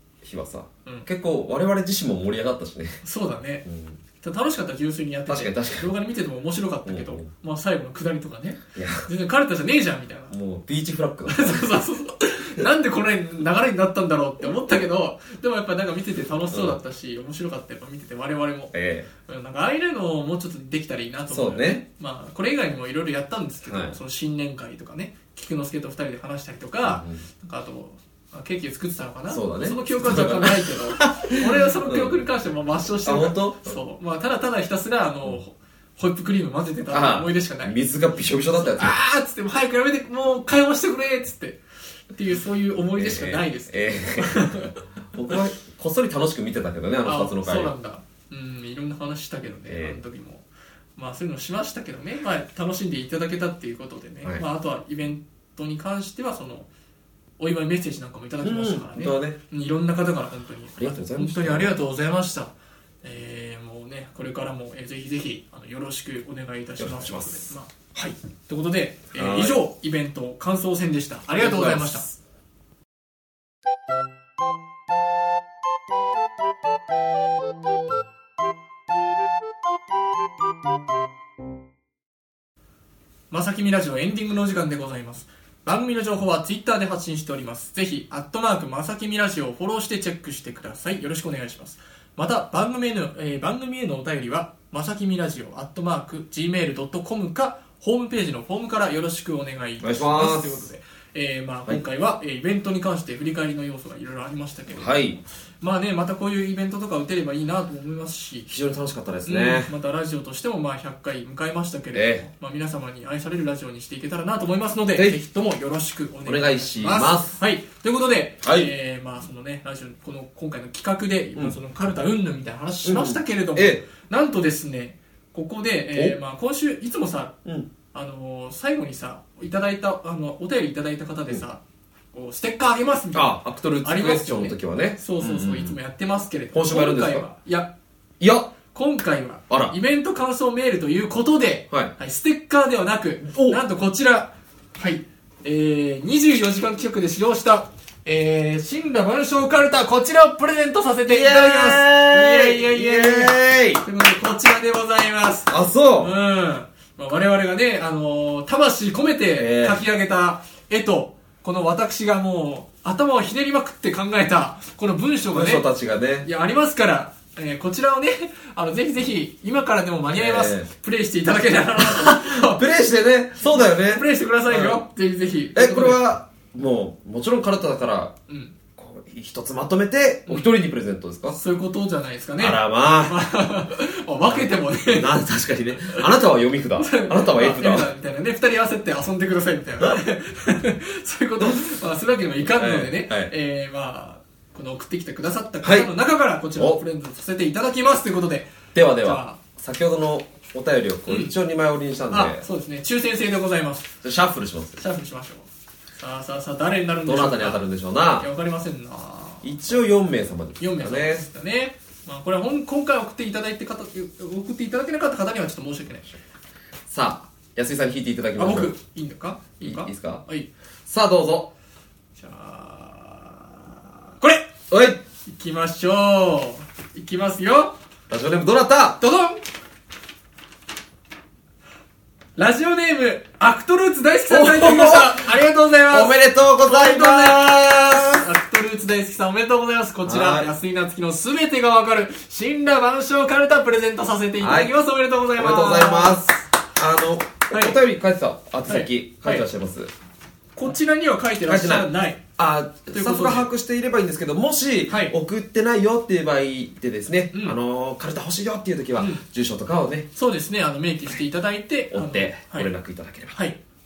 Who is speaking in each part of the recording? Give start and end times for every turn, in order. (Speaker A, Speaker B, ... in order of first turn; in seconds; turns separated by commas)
Speaker A: 0.2-3.0, Speaker B: 3.0-3.7, Speaker A: 3.6-4.0, Speaker B: 4.2-10.3, Speaker A: 5.3-5.9, Speaker A: 6.9-7.3, Speaker A: 8.8-9.1, Speaker A: 10.3-11.7, Speaker B: 11.3-18.7, Speaker A: 16.5-16.8, Speaker A: 18.7-19.1, Speaker B: 19.3-37.8, Speaker A: 21.3-21.8, Speaker A: 23.7-24.0, Speaker A: 26.9-27.2, Speaker A: 29.3-32.2, Speaker A: 33.0-33.8, Speaker A: 36.9-39.0, Speaker B: 38.6-41.6, Speaker B: 42.1-44.8, Speaker A: 43.0-47.7, Speaker B: 47.0-56.7, Speaker A: 49.7-50.0, Speaker B: 57.4-72.1, Speaker A: 58.4-59.4, Speaker A: 60.8-61.8, Speaker A: 66.8-67.5, Speaker A: 69.1-69.6, Speaker A: 71.3-72.2, Speaker B: 83.3-105.1, Speaker A: 99.8-100.7, Speaker A: 104.7-105.2, Speaker B: 105.6-108.5, Speaker A: 108.5-109.7, Speaker B: 109.2-127.3, Speaker A: 111.9-112.3, Speaker A: 114.9-115.2, Speaker A: 116.3-117.4, Speaker A: 118.4-118.7, Speaker A: 122.8-123.8, Speaker B: 127.9-131.6, Speaker B: 132.1-137.7, Speaker A: 133.1-135.8, Speaker A: 136.5-137.3, Speaker A: 138.2-138.5, Speaker B: 138.7-165.7, Speaker A: 143.3-143.6, Speaker A: 151.1-153.8, Speaker A: 155.5-156.1, Speaker A: 159.4-159.8, Speaker A: 165.3-166.3, Speaker B: 166.2-172.7, Speaker A: 170.1-170.7, Speaker A: 171.8-174.8, Speaker B: 173.4-176.0, Speaker A: 175.6-178.1, Speaker B: 178.3-178.6, Speaker A: 178.8-181.4, Speaker B: 181.3-185.1, Speaker A: 182.4-183.2, Speaker A: 184.2-187.9, Speaker B: 186.8-198.5, Speaker A: 191.4-191.6, Speaker A: 192.4-193.3, Speaker A: 195.6-195.9, Speaker A: 198.8-202.4, Speaker B: 199.0-199.4, Speaker B: 201.1-201.3, Speaker B: 202.1-203.9, Speaker A: 204.0-204.8, Speaker B: 204.8-207.6, Speaker A: 207.1-208.3, Speaker B: 208.2-209.5, Speaker A: 209.4-211.3, Speaker B: 210.6-216.1, Speaker A: 216.9-218.7, Speaker B: 218.4-220.5, Speaker A: 219.6-220.2, Speaker A: 220.9-221.5, Speaker B: 222.2-224.5, Speaker A: 224.7-225.0, Speaker B: 225.3-227.8, Speaker A: 228.1-229.0, Speaker B: 229.0-229.4, Speaker B: 232.4-246.2, Speaker A: 234.3-235.3, Speaker A: 235.9-238.3, Speaker A: 240.1-240.5, Speaker A: 244.4-244.7, Speaker A: 245.4-249.9, Speaker B: 247.5-247.8, Speaker B: 248.7-249.4, Speaker B: 250.6-252.2, Speaker A: 251.5-260.1, Speaker B: 252.9-253.5, Speaker B: 254.9-255.2, Speaker B: 259.0-259.2, Speaker B: 260.1-262.7, Speaker A: 261.9-263.3, Speaker B: 263.3-263.6